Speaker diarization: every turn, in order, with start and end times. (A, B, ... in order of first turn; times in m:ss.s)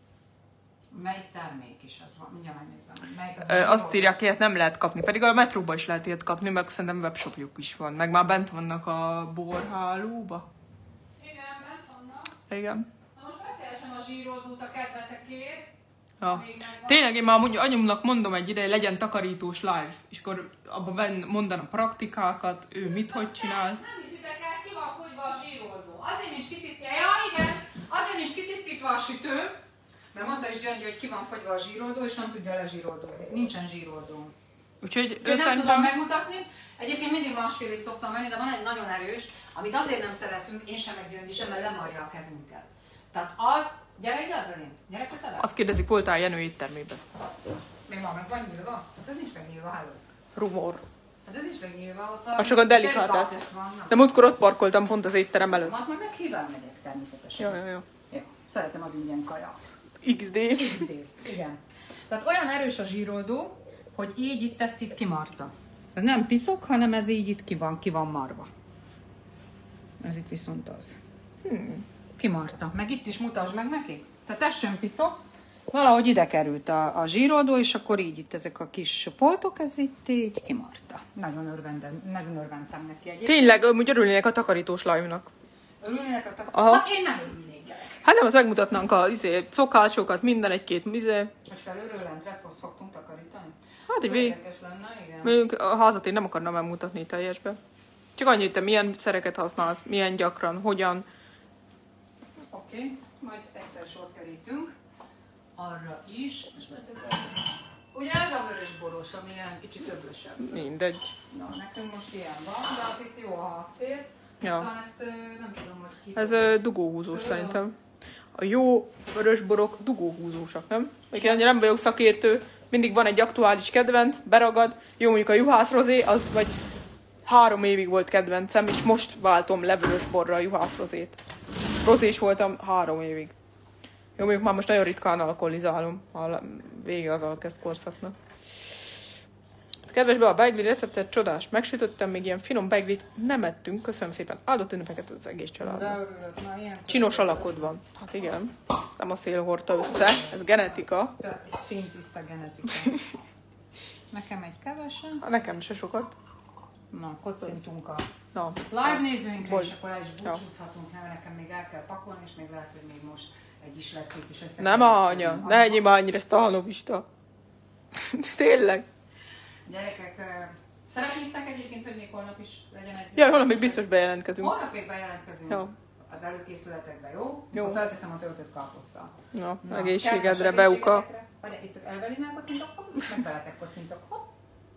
0:00.9-0:04.2 A
0:03.4-0:10.5 B
0:11.2-0:12.4 A
0:12.5-0:12.9 B
0:13.1-0:15.7 A
0:16.2-0:23.8 B
0:16.2-0:17.1 A
0:22.8-0:29.6 A
0:30.1-0:34.3 A
0:34.8-0:35.9 B
0:35.2-0:45.5 A
0:45.4-0:47.0 B
0:47.9-0:50.0 A
0:50.3-0:50.8 B
0:51.3-0:54.3 A
0:52.4-0:55.7 B
0:55.6-0:59.7 A
0:57.4-0:57.9 B
1:00.0-1:00.8 B
1:00.5-1:08.5 A
1:10.0-1:11.0 A
1:11.4-1:11.8 B
1:12.2-1:15.2 A
1:15.7-1:23.5 A
1:23.2-1:25.3 B
1:25.8-1:28.0 A
1:26.5-1:26.8 B
1:28.0-1:31.3 B
1:31.4-1:35.4 A
1:33.9-1:34.4 B
1:35.2-1:37.6 B
1:38.2-1:41.0 B
1:42.5-1:44.7 A
1:45.6-1:47.4 A
1:47.9-1:50.7 A
1:50.4-1:51.1 B
1:51.3-1:57.6 A
1:54.4-1:54.7 B
1:56.2-1:57.7 B
1:58.3-2:06.6 B
2:07.3-2:11.2 B
2:11.8-2:13.3 B
2:14.2-2:18.2 B
2:19.9-2:26.0 B
2:25.6-2:27.8 A
2:26.9-2:31.1 B
2:31.2-2:33.1 A
2:34.1-2:35.3 A
2:35.2-2:36.1 B
2:36.9-2:38.1 A
2:38.3-2:39.7 B
2:38.7-2:45.8 A
2:44.6-2:47.0 B
2:47.9-2:48.8 B
2:49.6-2:53.8 A
2:53.1-2:54.6 B
2:54.4-3:04.3 A
2:57.5-2:57.8 B
2:59.3-3:01.0 B